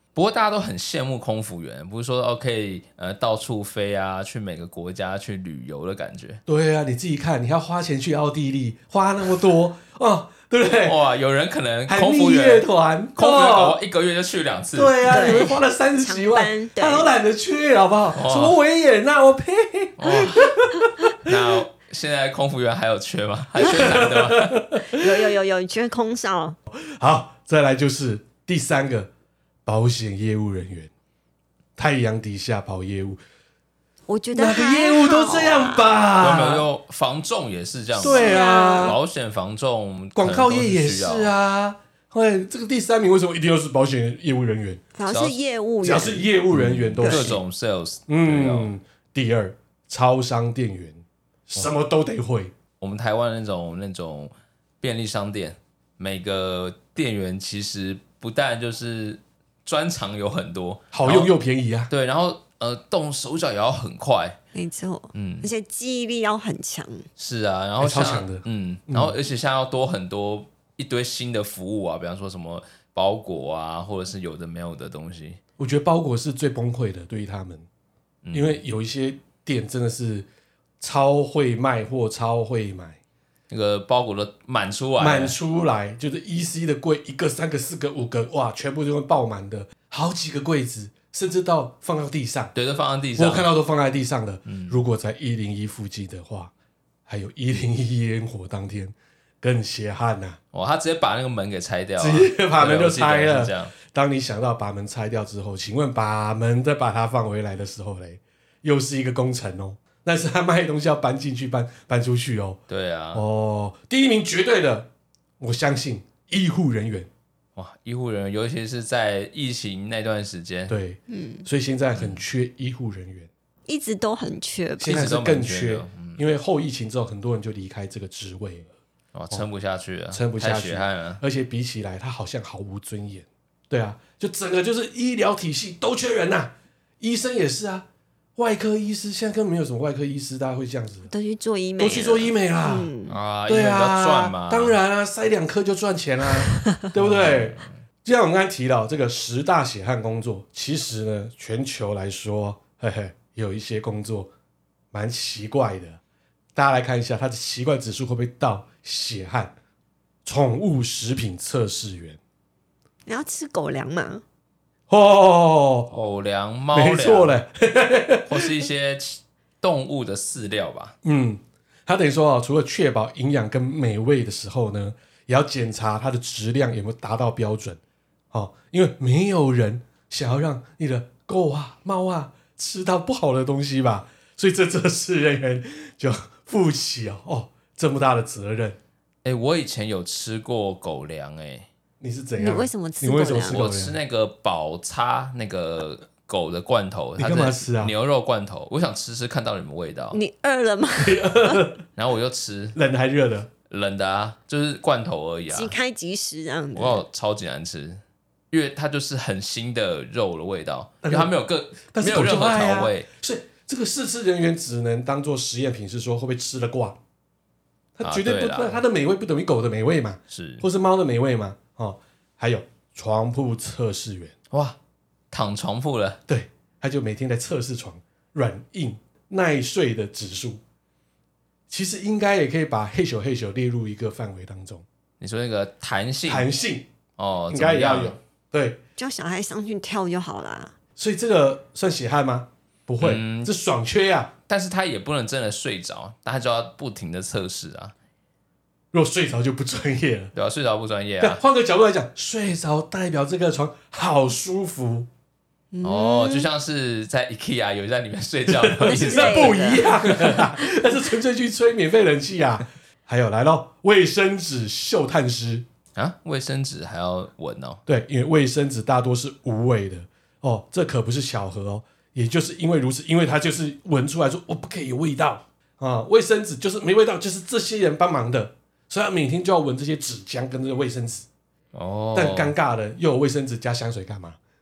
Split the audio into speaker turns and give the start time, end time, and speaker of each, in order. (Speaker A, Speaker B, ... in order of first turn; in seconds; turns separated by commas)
Speaker A: 0.1-6.4, Speaker B: 6.5-11.0, Speaker A: 10.8-15.3, Speaker B: 11.9-13.8, Speaker B: 14.7-21.4, Speaker C: 15.1-17.1, Speaker A: 18.1-18.6, Speaker A: 20.0-20.6, Speaker A: 21.2-24.6, Speaker B: 23.6-25.1, Speaker C: 24.9-26.6, Speaker B: 26.7-29.1, Speaker B: 29.6-30.9, Speaker B: 31.8-33.2, Speaker C: 34.1-36.0, Speaker B: 34.3-36.6, Speaker A: 36.2-41.3, Speaker B: 38.0-39.0, Speaker C: 38.0-39.0, Speaker B: 40.1-44.8, Speaker C: 44.9-46.3, Speaker A: 45.1-45.4, Speaker B: 45.8-47.4, Speaker A: 46.5-48.7, Speaker C: 47.0-47.3, Speaker B: 48.1-52.5, Speaker A: 52.8-61.3, Speaker B: 60.9-61.9, Speaker A: 61.9-64.4, Speaker C: 64.5-67.1, Speaker A: 65.1-65.5, Speaker A: 67.2-75.4, Speaker B: 67.8-69.1, Speaker B: 75.6-77.7, Speaker A: 78.2-78.6, Speaker B: 78.3-80.3, Speaker B: 80.8-83.0, Speaker A: 83.5-85.3, Speaker B: 85.0-92.5, Speaker A: 92.5-93.5, Speaker B: 93.2-96.5, Speaker A: 94.5-94.8, Speaker B: 97.1-100.4, Speaker A: 100.5-103.7, Speaker B: 102.0-112.6, Speaker A: 112.7-113.2, Speaker B: 113.1-114.9, Speaker B: 115.4-117.1, Speaker A: 117.5-120.7, Speaker B: 120.7-123.3, Speaker C: 121.1-121.5, Speaker A: 122.0-122.2, Speaker C: 123.7-125.0, Speaker B: 124.8-128.7, Speaker A: 124.8-126.2, Speaker A: 129.1-131.2, Speaker B: 130.1-141.1, Speaker C: 141.1-143.1, Speaker B: 141.8-142.9, Speaker A: 143.1-144.8, Speaker B: 143.5-154.3, Speaker A: 146.9-147.7, Speaker B: 154.9-156.0, Speaker B: 156.5-159.5, Speaker B: 160.2-162.2, Speaker C: 163.1-164.2, Speaker B: 164.9-165.9, Speaker A: 165.9-167.3, Speaker B: 166.7-168.6, Speaker A: 168.3-170.9, Speaker B: 171.0-177.8, Speaker B: 178.3-188.8, Speaker A: 189.2-191.7, Speaker B: 192.0-193.9, Speaker C: 192.4-193.6, Speaker A: 193.5-200.2, Speaker B: 197.2-197.9, Speaker C: 200.1-201.6, Speaker B: 201.0-201.8, Speaker A: 201.9-202.8, Speaker B: 202.7-203.5, Speaker A: 203.7-205.7, Speaker C: 205.5-207.0, Speaker A: 206.7-213.1, Speaker B: 211.0-211.3, Speaker B: 211.9-217.0, Speaker B: 218.0-224.3, Speaker A: 218.0-218.8, Speaker A: 220.3-220.6, Speaker A: 224.5-224.8, Speaker A: 225.3-226.2, Speaker B: 226.3-230.6, Speaker B: 231.7-234.8, Speaker A: 235.2-236.5, Speaker B: 236.3-236.9, Speaker A: 237.2-238.1, Speaker B: 237.5-238.8, Speaker C: 239.0-240.7, Speaker B: 241.0-244.3, Speaker A: 243.0-243.5, Speaker A: 244.5-247.9, Speaker B: 248.9-250.3, Speaker A: 250.3-251.4, Speaker B: 251.2-255.1, Speaker C: 255.7-256.5, Speaker A: 255.8-260.5, Speaker B: 258.5-265.6, Speaker C: 258.8-260.9, Speaker A: 265.9-267.8, Speaker B: 267.9-281.2, Speaker A: 281.7-282.5, Speaker B: 282.1-284.4